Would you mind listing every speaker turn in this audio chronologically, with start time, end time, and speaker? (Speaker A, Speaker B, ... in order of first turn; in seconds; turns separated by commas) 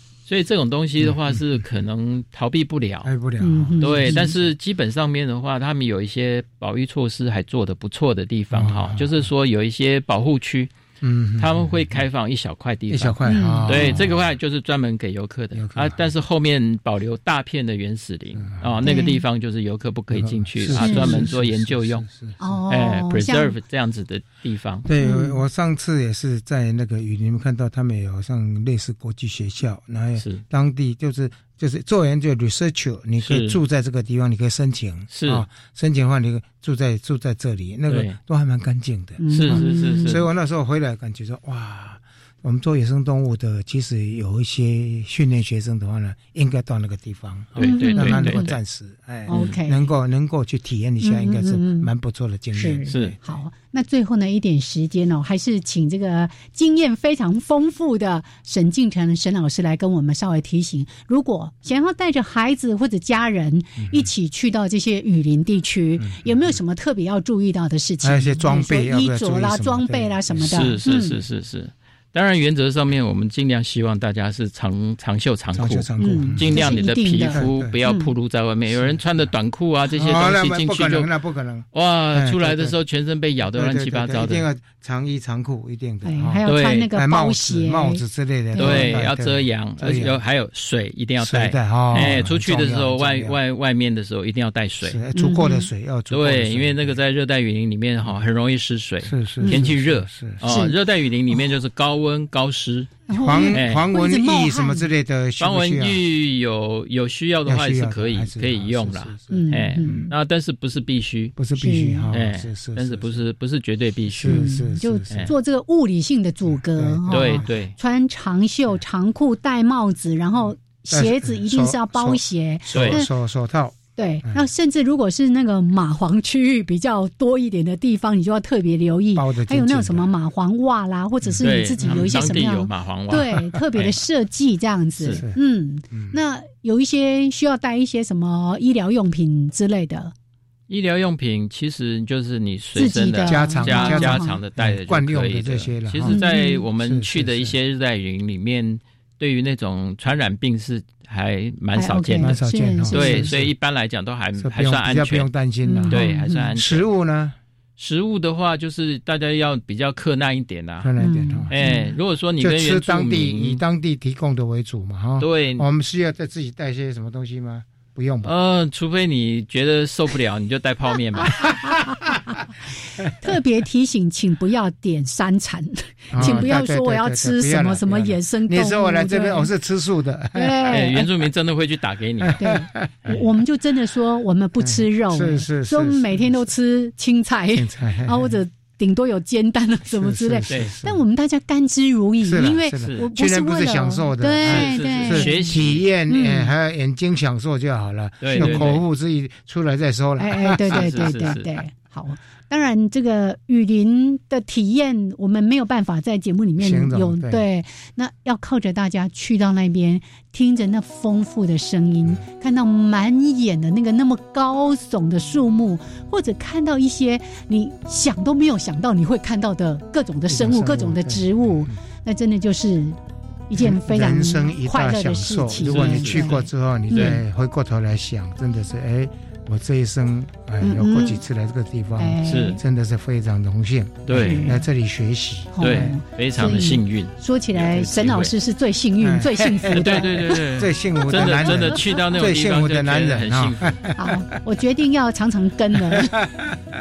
Speaker A: 0.2-3.1, Speaker B: 1.0-1.6, Speaker B: 3.0-4.4, Speaker C: 3.4-4.3, Speaker A: 3.8-10.7, Speaker B: 8.5-9.3, Speaker B: 11.0-12.0, Speaker A: 11.4-22.1, Speaker B: 12.9-14.3, Speaker C: 13.2-14.0, Speaker B: 15.5-16.1, Speaker B: 18.4-18.8, Speaker C: 18.8-19.2, Speaker B: 20.1-22.4, Speaker C: 20.7-21.3, Speaker C: 22.4-23.6, Speaker A: 22.7-24.9, Speaker B: 24.9-53.2, Speaker C: 25.0-25.4, Speaker A: 30.2-30.4, Speaker A: 33.2-33.6, Speaker A: 35.1-35.4, Speaker A: 37.9-38.2, Speaker C: 39.2-40.2, Speaker A: 39.3-40.2, Speaker A: 47.5-48.5, Speaker C: 47.6-48.6, Speaker C: 49.3-49.9, Speaker A: 49.3-49.6, Speaker C: 51.0-51.9, Speaker C: 52.5-71.2, Speaker A: 52.9-53.1, Speaker B: 63.8-64.1, Speaker B: 66.0-66.6, Speaker B: 68.0-70.7, Speaker A: 70.4-81.1, Speaker B: 75.5-77.7, Speaker C: 76.0-78.1, Speaker B: 78.7-79.3, Speaker B: 79.9-82.8, Speaker A: 81.7-84.4, Speaker B: 83.4-90.2, Speaker C: 86.0-88.0, Speaker A: 86.5-86.9, Speaker C: 88.5-89.0, Speaker A: 88.6-95.0, Speaker B: 91.2-93.4, Speaker C: 91.9-92.2, Speaker B: 94.8-97.0, Speaker C: 95.1-95.7, Speaker A: 96.1-102.9, Speaker B: 99.0-100.5, Speaker C: 100.4-100.7, Speaker C: 103.1-104.9, Speaker B: 103.1-106.0, Speaker A: 103.5-103.8, Speaker A: 105.4-111.3, Speaker B: 107.5-110.1, Speaker C: 109.3-110.1, Speaker B: 111.3-113.2, Speaker C: 111.5-112.1, Speaker A: 112.1-114.4, Speaker B: 114.1-115.3, Speaker C: 114.2-123.1, Speaker B: 116.5-117.5, Speaker A: 117.1-117.7, Speaker B: 120.9-124.4, Speaker A: 122.7-123.0, Speaker C: 124.0-140.1, Speaker B: 129.1-130.1, Speaker B: 131.2-132.5, Speaker A: 131.4-134.0, Speaker B: 135.1-135.4, Speaker B: 135.9-136.2, Speaker A: 140.7-152.3, Speaker C: 142.7-144.4, Speaker B: 143.2-146.2, Speaker C: 146.1-146.6, Speaker B: 146.7-147.6, Speaker C: 151.7-153.4, Speaker B: 152.2-153.5, Speaker A: 152.9-155.3, Speaker B: 154.4-157.3, Speaker C: 155.6-156.5, Speaker A: 155.9-156.8, Speaker A: 157.8-160.9, Speaker B: 160.8-161.5, Speaker C: 161.0-161.9, Speaker A: 161.5-163.6, Speaker B: 162.4-168.3, Speaker A: 165.2-165.7, Speaker A: 168.2-171.6, Speaker C: 171.4-172.3, Speaker C: 173.2-179.5, Speaker B: 176.1-180.9, Speaker A: 176.2-176.5, Speaker C: 180.3-181.1, Speaker A: 180.7-182.5, Speaker B: 182.2-183.2, Speaker C: 182.4-196.5, Speaker B: 184.6-186.5, Speaker B: 187.5-188.4, Speaker B: 189.9-191.0, Speaker A: 190.5-190.7, Speaker B: 192.2-201.4, Speaker A: 194.4-195.8, Speaker A: 198.2-198.8, Speaker C: 198.3-198.7, Speaker C: 200.2-223.0, Speaker A: 200.7-201.5, Speaker B: 206.6-207.4, Speaker B: 220.3-221.8, Speaker C: 223.5-227.2, Speaker B: 223.6-235.9, Speaker A: 225.6-226.3, Speaker C: 230.6-231.2, Speaker C: 232.0-232.6, Speaker A: 232.2-232.6, Speaker A: 234.1-234.6, Speaker C: 234.1-234.6, Speaker C: 235.5-240.4, Speaker A: 235.6-238.3, Speaker B: 239.0-244.1, Speaker A: 239.7-243.7, Speaker C: 241.1-241.8, Speaker C: 243.9-246.1, Speaker B: 245.8-246.6